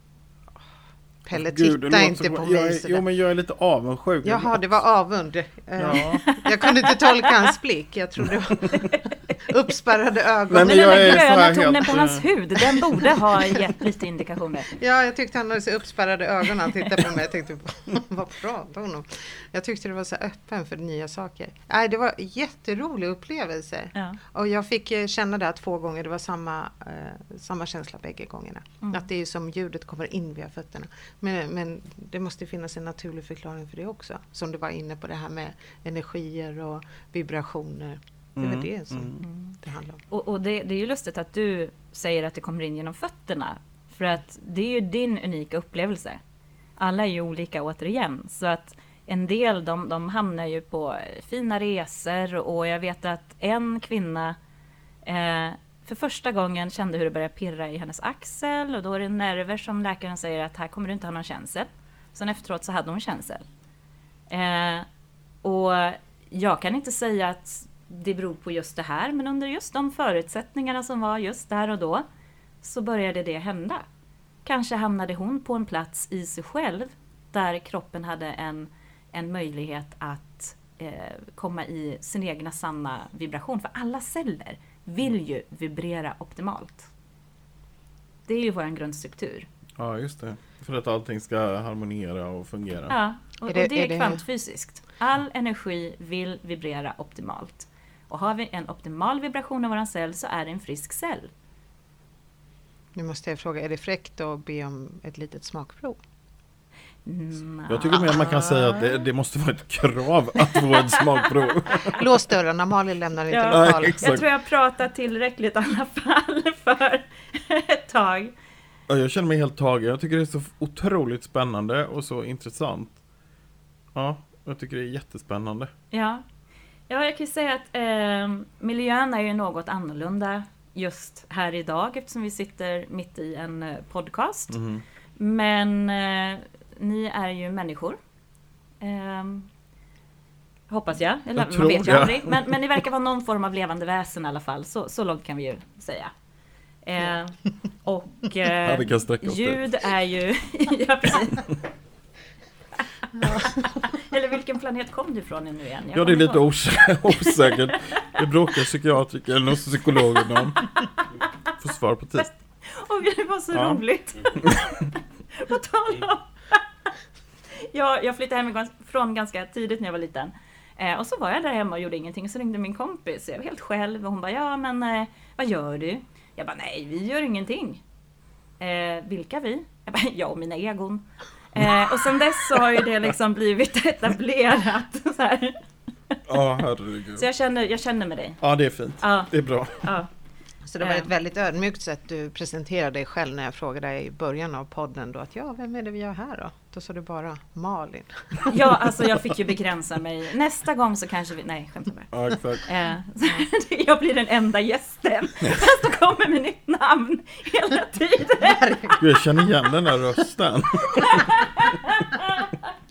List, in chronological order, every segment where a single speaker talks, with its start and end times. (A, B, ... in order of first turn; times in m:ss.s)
0:01.2-0:03.0 A
0:01.3-0:04.7 B
0:04.2-0:11.4 A
0:05.8-0:06.2 B
0:05.9-0:07.5 C
0:10.5-0:12.3 B
0:10.6-0:14.7 C
0:14.7-0:40.0 A
0:38.4-0:39.2 B
0:39.2-0:39.6 C
0:40.1-0:46.2 C
0:46.8-0:54.4 C
0:55.0-1:03.4 C
1:04.3-1:04.9 C
1:05.4-1:12.0 C
1:12.6-1:13.8 C
1:14.4-1:26.9 C
1:28.3-1:29.5 C
1:29.8-1:33.0 B
1:32.9-1:41.3 C
1:33.5-1:34.2 A
1:43.0-1:46.0 A
1:47.0-1:49.0 C
1:47.7-1:52.1 B
1:50.5-1:51.4 C
1:51.8-1:54.0 A
1:53.3-1:58.3 C
1:53.5-1:54.3 B
1:58.9-2:03.0 B
2:03.9-2:05.7 B
2:05.9-2:06.2 C
2:06.9-2:14.6 C
2:14.5-2:14.8 B
2:15.2-2:18.0 C
2:18.8-2:19.5 C
2:20.7-2:26.1 C
2:21.4-2:22.6 B
2:26.8-2:31.6 C
2:28.6-2:29.6 B
2:33.0-2:36.4 C
2:35.9-2:40.7 B
2:37.1-2:37.8 C
2:41.6-2:42.3 B
2:42.2-2:46.6 C
2:43.5-2:43.8 B
2:47.5-2:57.8 C
2:58.6-3:06.2 C
3:06.3-3:07.3 B
3:07.2-3:08.4 C
3:08.4-3:09.9 B
3:09.0-3:09.3 C
3:09.8-3:10.1 C
3:10.7-3:18.5 A
3:10.8-3:11.1 C
3:18.5-3:29.0 C
3:22.1-3:22.6 B
3:28.6-3:28.9 A
3:29.0-3:31.3 B
3:31.0-3:32.6 C